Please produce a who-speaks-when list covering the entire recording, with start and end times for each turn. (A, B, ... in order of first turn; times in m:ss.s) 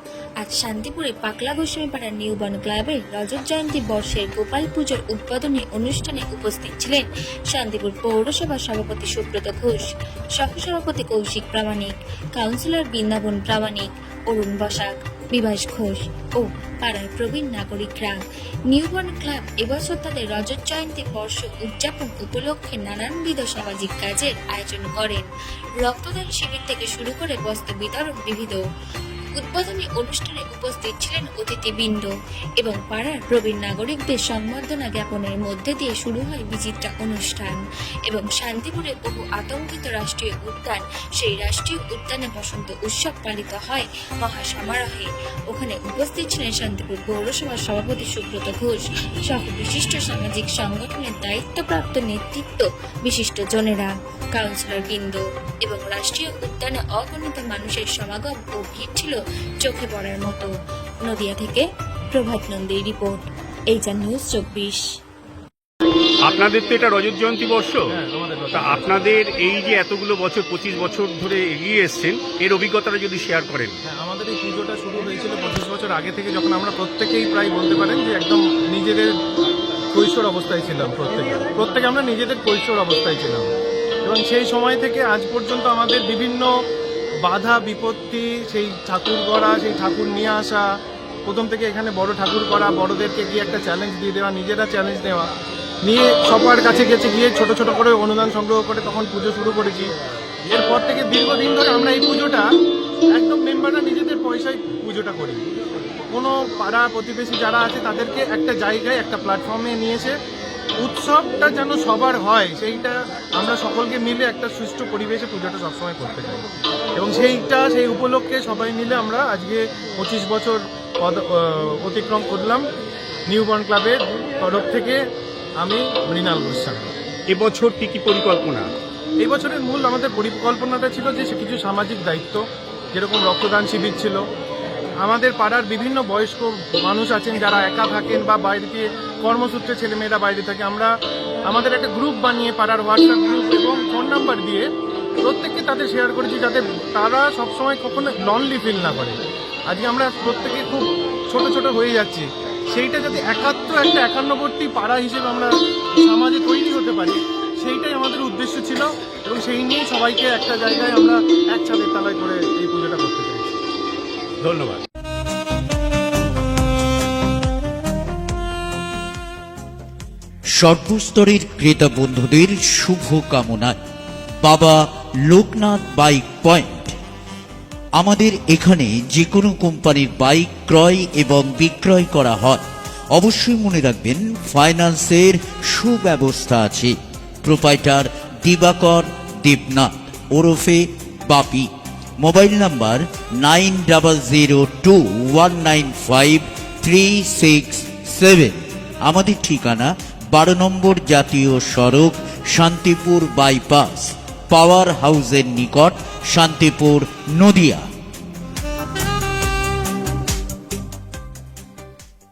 0:00.4-0:18.2 A
0:18.7-0:25.3 A
0:25.8-0:28.6 A
0:29.4-1:00.5 A
1:01.0-1:04.8 A
1:06.2-1:07.9 B
1:07.9-1:08.9 C
1:08.5-1:13.8 B
1:13.9-1:19.1 C
1:19.9-1:23.5 C
1:24.0-1:26.5 C
1:27.2-1:30.6 C
1:31.3-1:35.3 C
1:35.8-1:39.9 C
1:40.5-1:42.4 C
1:43.1-1:45.4 C
1:46.1-1:50.1 C
1:50.8-1:56.4 C
1:57.0-2:02.6 C
2:03.3-2:05.0 C
2:05.6-2:06.9 C
2:07.3-2:08.7 B
2:09.2-2:14.2 C
2:15.0-2:20.9 C
2:21.5-2:24.7 C
2:25.2-2:29.2 C
2:29.7-2:43.6 C
2:44.4-2:44.8 B
2:50.6-2:53.7 D
2:54.4-2:56.9 D
2:58.0-3:11.7 D
3:12.2-3:27.8 D